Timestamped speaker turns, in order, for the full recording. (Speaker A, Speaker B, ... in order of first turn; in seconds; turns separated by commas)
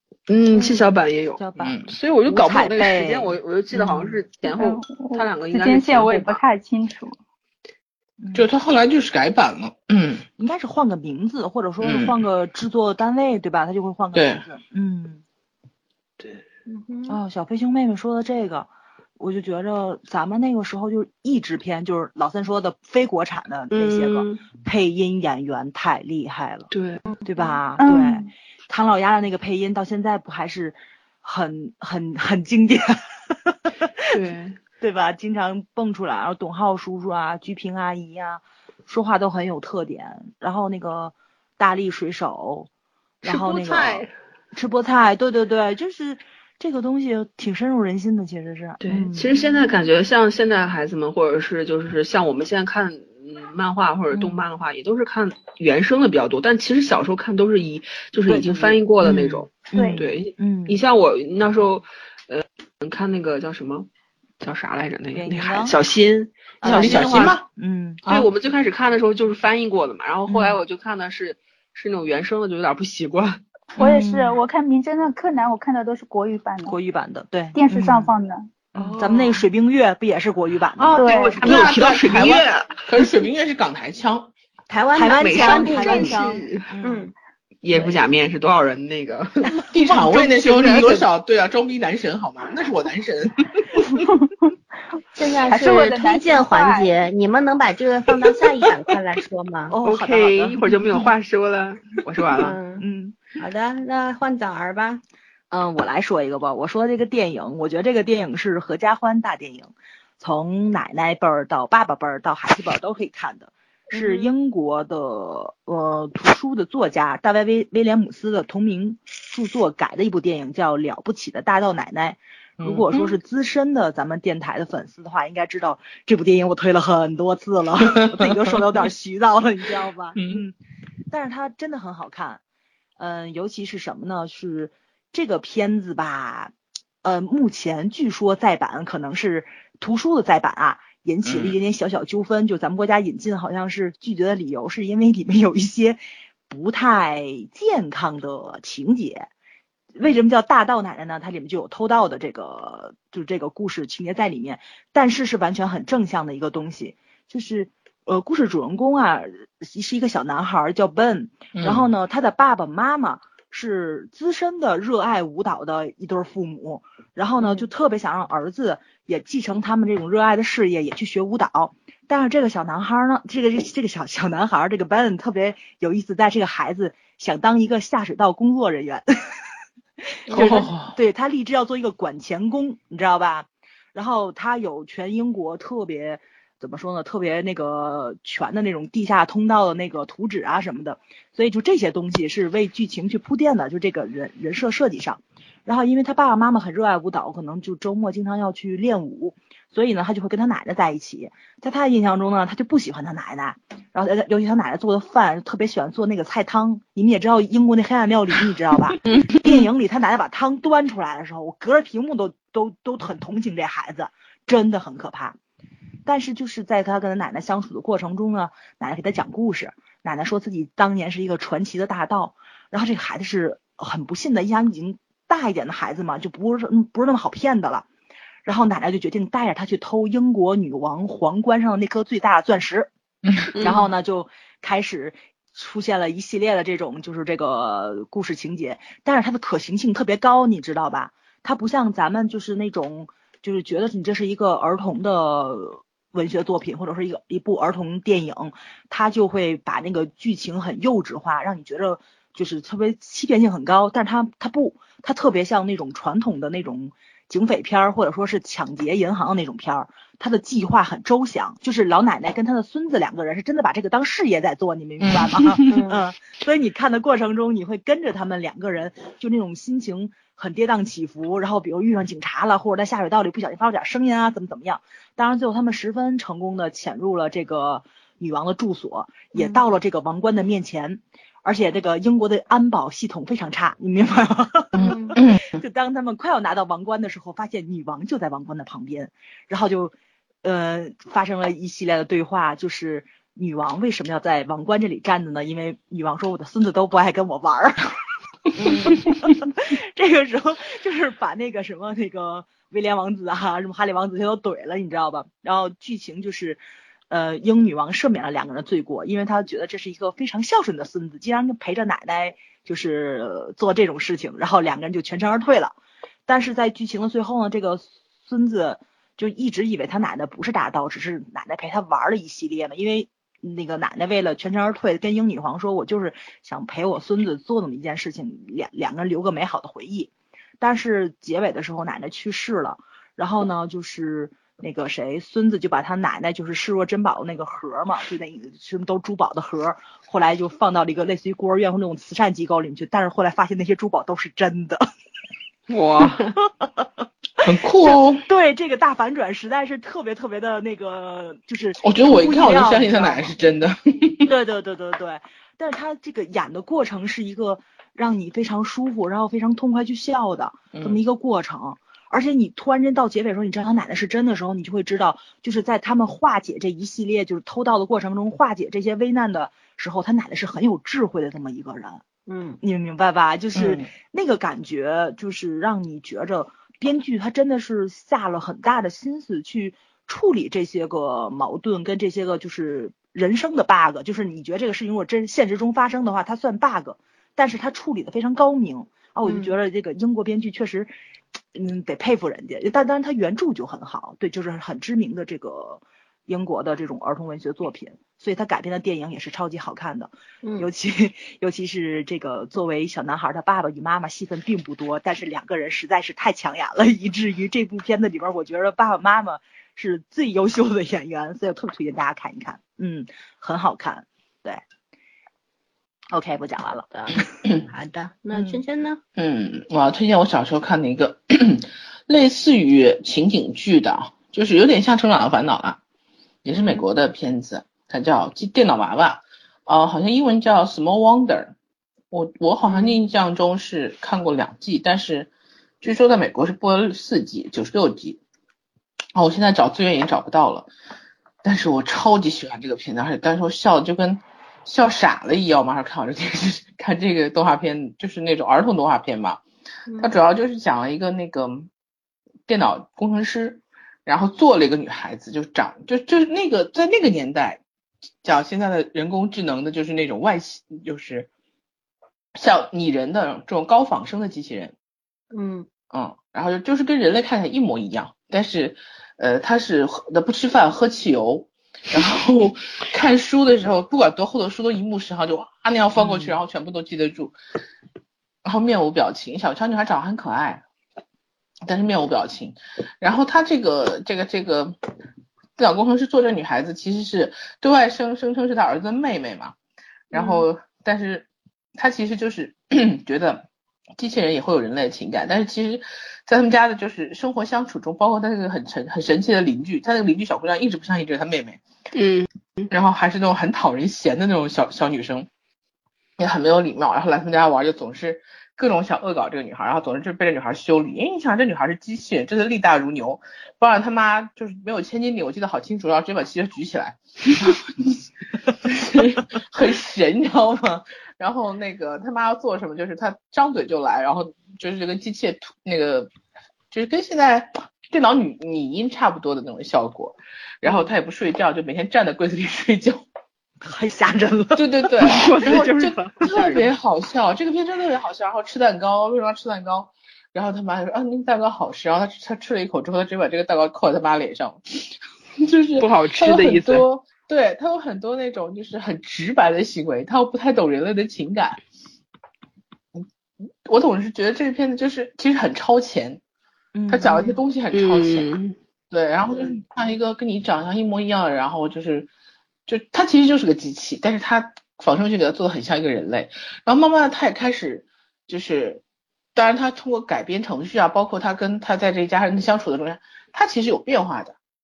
Speaker A: 0.3-6.4, Speaker B: 1.4-4.2, Speaker C: 1.6-1.9, Speaker D: 4.5-7.2, Speaker B: 8.2-8.5, Speaker C: 8.3-10.2, Speaker B: 10.4-15.2, Speaker C: 11.8-12.2, Speaker C: 14.1-14.4, Speaker E: 16.7-17.2, Speaker B: 17.1-26.7, Speaker A: 23.7-24.4, Speaker A: 26.7-27.0, Speaker B: 27.2-34.0, Speaker D: 27.8-28.3, Speaker A: 34.1-34.6, Speaker B: 34.8-42.7, Speaker A: 43.2-44.1, Speaker B: 43.2-49.3, Speaker A: 48.8-63.9, Speaker B: 54.1-54.5, Speaker B: 58.2-60.8, Speaker D: 59.7-60.0, Speaker A: 64.4-67.4, Speaker B: 65.1-65.8, Speaker B: 66.6-68.0, Speaker C: 66.6-67.4, Speaker A: 68.1-73.4, Speaker B: 70.3-70.6, Speaker B: 73.8-74.4, Speaker D: 73.8-76.8, Speaker B: 76.7-78.1, Speaker D: 77.5-78.5, Speaker B: 78.7-81.7, Speaker A: 78.8-79.4, Speaker A: 80.8-83.1, Speaker D: 80.9-81.4, Speaker C: 81.4-84.3, Speaker E: 84.7-87.1, Speaker B: 84.9-87.0, Speaker A: 85.2-86.7, Speaker A: 87.6-91.0, Speaker B: 89.4-90.8, Speaker C: 89.7-93.9, Speaker D: 93.9-94.3, Speaker E: 95.1-99.8, Speaker D: 95.4-96.9, Speaker B: 99.7-101.1, Speaker A: 99.8-102.5, Speaker B: 102.3-103.2, Speaker E: 102.4-102.8, Speaker E: 103.4-105.0, Speaker B: 105.5-130.6, Speaker E: 113.9-114.3, Speaker C: 122.6-123.0, Speaker C: 127.9-128.3, Speaker C: 130.2-130.4, Speaker B: 131.1-132.4, Speaker B: 133.0-149.3, Speaker C: 141.2-141.6, Speaker B: 149.9-179.5, Speaker C: 161.6-161.9, Speaker B: 180.0-215.4, Speaker C: 180.3-180.9, Speaker B: 216.1-227.8, Speaker B: 228.4-232.9, Speaker A: 233.5-233.8, Speaker B: 233.5-298.0, Speaker C: 265.0-265.8, Speaker E: 265.7-266.0, Speaker E: 279.4-279.6, Speaker C: 284.8-285.6, Speaker E: 284.8-285.1, Speaker E: 298.6-299.0, Speaker B: 298.6-315.7, Speaker B: 316.3-344.9, Speaker A: 345.7-346.3, Speaker B: 346.4-347.0, Speaker C: 347.4-348.2, Speaker B: 347.8-353.4, Speaker C: 351.8-354.3, Speaker B: 354.2-372.0, Speaker C: 360.7-361.0, Speaker E: 372.3-372.6, Speaker B: 372.6-390.9, Speaker C: 373.5-373.9, Speaker E: 389.2-389.5, Speaker B: 391.5-414.6, Speaker E: 400.4-400.7, Speaker B: 416.1-417.3, Speaker E: 416.9-419.0, Speaker B: 418.3-418.6, Speaker C: 419.2-425.8, Speaker C: 426.4-431.5, Speaker E: 426.6-426.9, Speaker C: 432.1-435.3, Speaker E: 432.6-432.9, Speaker C: 435.8-438.2, Speaker C: 439.1-440.7, Speaker C: 441.4-449.4, Speaker E: 449.9-450.1, Speaker C: 450.0-451.7, Speaker C: 452.5-457.6, Speaker C: 458.2-461.3, Speaker C: 462.3-464.7, Speaker E: 465.3-465.7, Speaker C: 465.9-477.3, Speaker B: 475.9-476.4, Speaker C: 478.4-480.6, Speaker C: 481.6-484.8, Speaker C: 485.6-489.5, Speaker C: 490.1-493.4, Speaker E: 490.2-490.4, Speaker C: 494.0-501.6, Speaker A: 501.9-502.7, Speaker C: 502.7-505.3, Speaker C: 506.2-526.1, Speaker C: 526.7-533.0, Speaker B: 533.6-536.6, Speaker C: 534.5-544.6, Speaker A: 535.0-536.5, Speaker C: 545.4-551.6, Speaker A: 545.8-546.9, Speaker C: 553.6-556.2, Speaker B: 556.7-557.3, Speaker C: 556.9-558.3, Speaker A: 557.7-558.5, Speaker C: 558.9-562.1, Speaker C: 562.7-568.8, Speaker C: 569.3-574.3